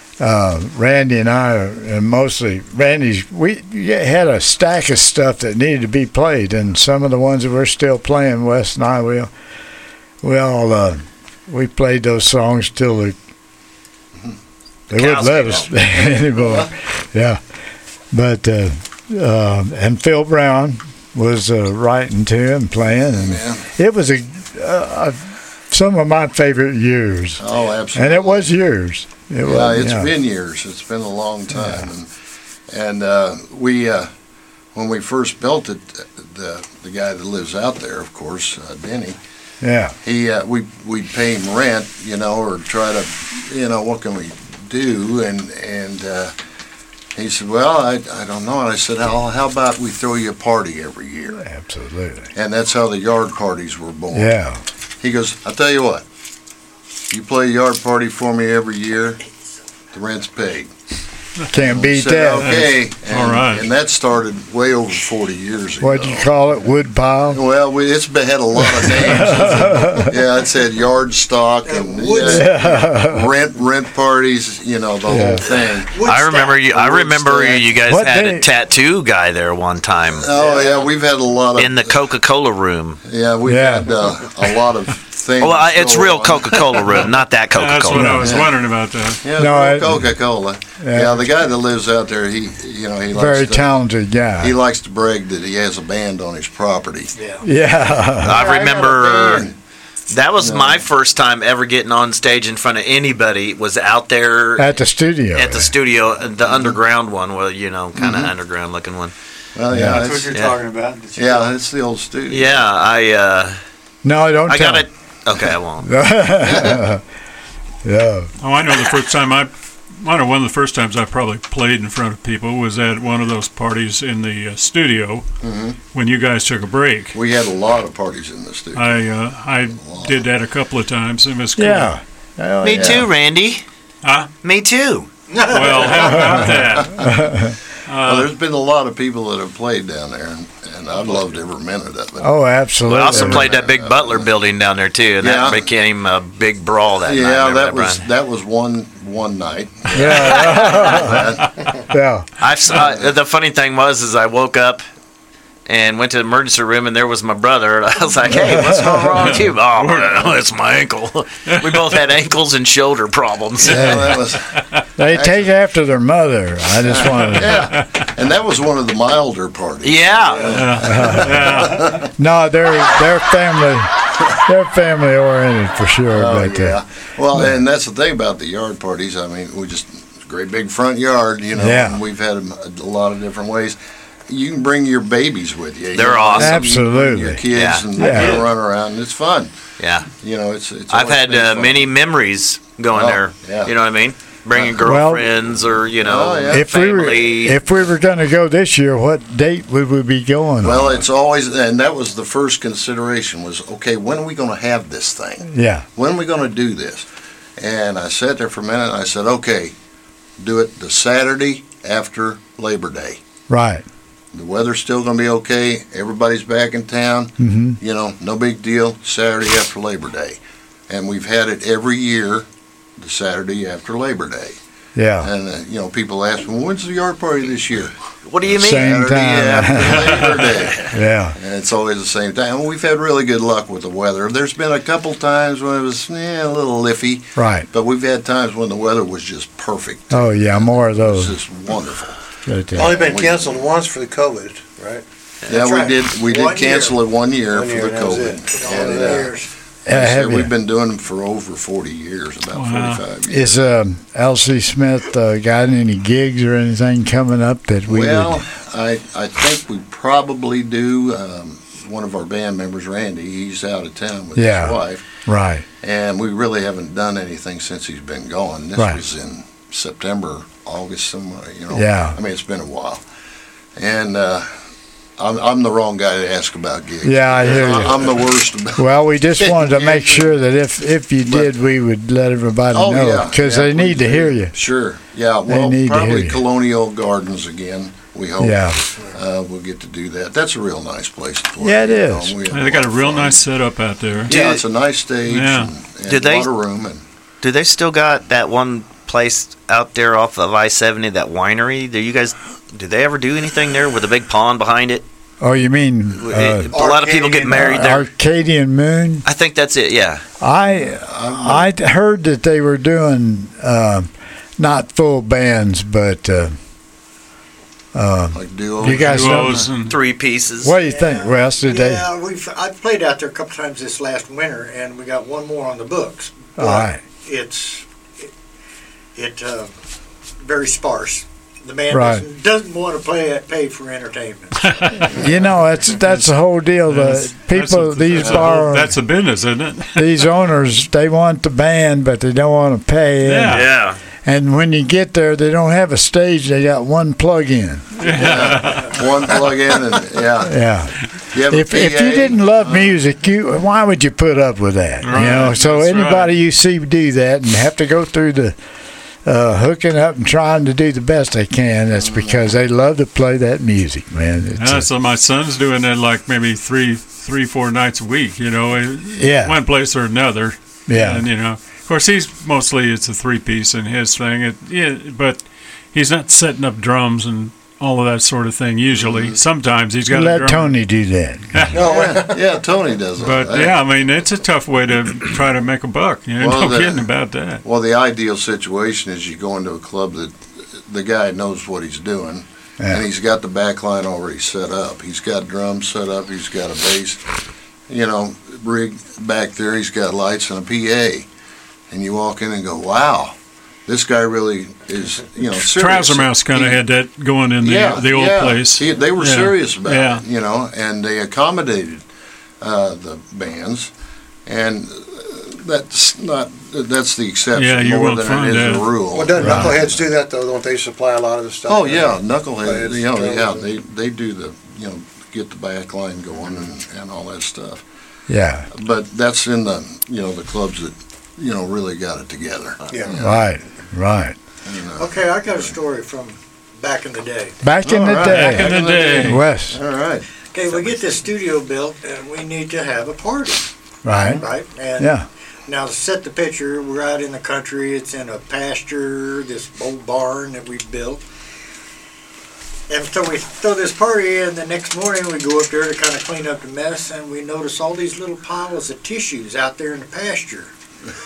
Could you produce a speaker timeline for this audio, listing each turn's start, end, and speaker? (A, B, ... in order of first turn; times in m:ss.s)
0:00.2-0:09.3 A
0:10.2-0:13.2 A
0:14.9-0:15.7 B
0:14.9-0:17.4 A
0:16.4-0:16.7 C
0:18.1-0:27.4 A
0:23.1-0:23.6 C
0:27.4-0:28.5 C
0:27.9-0:30.1 A
0:29.4-0:32.1 C
0:32.7-0:34.1 C
0:34.7-0:39.2 C
0:39.6-0:39.9 A
0:40.0-0:46.3 C
0:47.1-0:51.4 C
0:51.3-0:52.3 A
0:52.4-0:54.3 C
0:54.1-0:54.6 A
0:55.0-0:56.0 C
0:57.1-0:59.2 C
0:59.9-1:00.7 C
1:01.5-1:02.6 A
1:01.6-1:06.3 C
1:02.4-1:03.6 D
1:05.8-1:07.4 A
1:07.3-1:16.0 C
1:08.6-1:10.1 A
1:11.6-1:12.6 E
1:12.2-1:13.3 A
1:15.0-1:15.5 A
1:15.9-1:16.6 E
1:16.0-1:20.3 B
1:16.6-1:17.7 C
1:17.9-1:18.5 A
1:20.1-1:22.1 C
1:20.3-1:20.8 E
1:21.5-1:23.0 B
1:23.0-1:27.1 C
1:23.4-1:24.0 A
1:25.4-1:28.3 B
1:27.5-1:29.2 D
1:27.9-1:28.4 A
1:28.2-1:28.5 C
1:29.2-1:33.8 C
1:29.4-1:30.1 A
1:30.8-1:31.4 A
1:33.1-1:34.6 A
1:34.4-1:37.1 C
1:37.2-1:37.4 E
1:37.4-1:38.4 A
1:38.2-1:39.5 B
1:38.3-1:39.6 C
1:40.1-1:44.7 B
1:40.4-1:40.8 C
1:44.6-1:45.7 A
1:45.3-1:49.1 B
1:46.4-1:46.8 C
1:48.0-1:48.3 C
1:49.5-1:50.4 C
1:49.7-1:50.1 A
1:49.9-1:51.4 F
1:50.2-1:50.6 B
1:51.1-1:52.6 C
1:52.3-1:53.6 B
1:54.0-1:54.9 A
1:54.5-1:55.9 B
1:55.8-1:57.0 A
1:56.5-1:56.8 C
1:57.8-1:58.3 A
1:58.4-2:05.3 D
2:05.4-2:05.8 C
2:05.9-2:07.1 D
2:07.1-2:09.0 C
2:08.7-2:11.9 D
2:09.8-2:10.2 C
2:11.6-2:13.0 A
2:12.6-2:13.6 B
2:12.7-2:13.1 C
2:14.0-2:14.3 D
2:14.4-2:15.1 B
2:15.3-2:16.3 E
2:15.4-2:17.1 D
2:16.0-2:17.6 A
2:17.9-2:18.3 D
2:18.0-2:22.3 C
2:22.2-2:23.5 A
2:22.8-2:28.0 B
2:23.0-2:24.3 C
2:25.2-2:25.6 C
2:27.0-2:31.5 C
2:29.9-2:31.3 A
2:30.0-2:30.9 B
2:31.9-2:32.3 A
2:32.4-2:34.8 B
2:35.6-2:44.0 B
2:38.4-2:39.1 A
2:41.5-2:41.8 D
2:43.6-2:45.5 C
2:43.6-2:44.2 A
2:45.0-2:47.7 A
2:46.8-2:52.1 C
2:49.8-2:50.7 B
2:50.4-2:52.0 D
2:50.8-2:56.8 A
2:56.1-3:03.8 C
3:01.5-3:02.0 A
3:04.3-3:09.6 C
3:05.9-3:06.7 B
3:06.3-3:08.4 A
3:07.5-3:08.4 B
3:09.8-3:10.1 B
3:10.1-3:11.9 C
3:10.9-3:17.6 B
3:12.9-3:13.7 C
3:14.8-3:15.3 A
3:16.0-3:16.6 C
3:16.5-3:21.0 A
3:20.6-3:27.0 C
3:25.5-3:25.8 A
3:27.6-3:29.7 C
3:30.4-3:33.2 C
3:33.5-3:33.8 A
3:34.3-3:42.5 C
3:37.4-3:37.8 A
3:43.0-3:44.6 C
3:45.0-3:45.3 A
3:45.2-4:02.2 C
3:48.2-3:49.1 B
3:48.6-3:51.4 A
3:57.4-3:57.6 A
4:00.1-4:01.3 A
4:02.4-4:03.1 A
4:02.7-4:05.0 F
4:02.8-4:03.6 C
4:05.5-4:09.3 C
4:05.5-4:07.0 E
4:07.5-4:09.3 F
4:08.5-4:09.5 E
4:09.8-4:13.6 C
4:09.9-4:10.5 A
4:12.5-4:13.0 D
4:13.3-4:18.4 A
4:17.9-4:25.0 C
4:24.3-4:25.6 A
4:25.8-4:33.0 C
4:28.8-4:29.0 A
4:31.7-4:32.2 A
4:33.8-4:34.5 C
4:35.2-4:38.8 C
4:37.0-4:44.5 A
4:39.4-4:40.3 C
4:41.2-4:41.5 C
4:42.7-4:53.4 C
4:45.4-4:46.4 A
4:48.4-4:48.8 A
4:51.6-4:52.3 A
4:52.5-4:54.4 D
4:54.2-4:57.0 C
4:55.3-4:55.7 D
4:56.1-4:56.5 B
4:57.4-5:05.0 B
5:05.4-5:06.8 A
5:06.2-5:08.1 B
5:06.7-5:07.7 F
5:07.5-5:09.2 A
5:09.2-5:10.2 B
5:10.4-5:16.5 A
5:10.8-5:11.7 C
5:17.9-5:19.7 A
5:18.3-5:19.7 C
5:18.8-5:20.0 D
5:19.8-5:20.7 B
5:20.6-5:22.0 A
5:20.8-5:28.3 E
5:26.6-5:27.0 A
5:29.1-5:29.7 E
5:30.4-5:35.2 E
5:31.9-5:32.2 A
5:34.6-5:35.1 D
5:35.1-5:39.0 A
5:36.9-5:40.1 D
5:38.2-5:38.5 C
5:39.9-5:43.7 A
5:43.2-5:43.6 D
5:43.5-5:44.0 B
5:44.2-5:48.2 A
5:48.0-5:49.1 D
5:48.1-5:50.6 C
5:50.4-5:51.0 A
5:51.3-5:53.0 C
5:51.5-5:58.6 A
5:55.0-5:56.4 D
5:59.2-6:04.9 A
6:02.0-6:02.4 C
6:04.6-6:20.7 D
6:09.2-6:09.6 A
6:10.9-6:11.2 A
6:18.9-6:19.4 C
6:20.1-6:21.7 A
6:21.5-6:21.8 D
6:21.7-6:22.5 F
6:21.8-6:23.8 C
6:23.2-6:27.6 D
6:26.4-6:27.0 C
6:27.6-6:37.2 C
6:32.8-6:33.0 A
6:37.9-6:41.2 C
6:41.9-6:43.3 C
6:43.9-6:46.8 C
6:45.6-6:50.2 D
6:47.6-6:52.0 C
6:52.6-6:53.9 C
6:54.4-7:00.0 C
6:57.5-6:59.6 D
6:59.1-7:03.6 F
7:01.7-7:07.8 C
7:08.3-7:08.7 A
7:08.7-7:13.5 C
7:12.9-7:13.2 F
7:13.2-7:14.4 A
7:14.6-7:15.6 C
7:15.0-7:17.6 E
7:17.6-7:19.8 A
7:17.8-7:20.2 C
7:18.1-7:19.4 D
7:20.5-7:23.7 E
7:24.0-7:24.4 A
7:24.4-7:25.1 E
7:25.0-7:25.2 A
7:25.7-7:31.2 E
7:32.9-7:40.7 E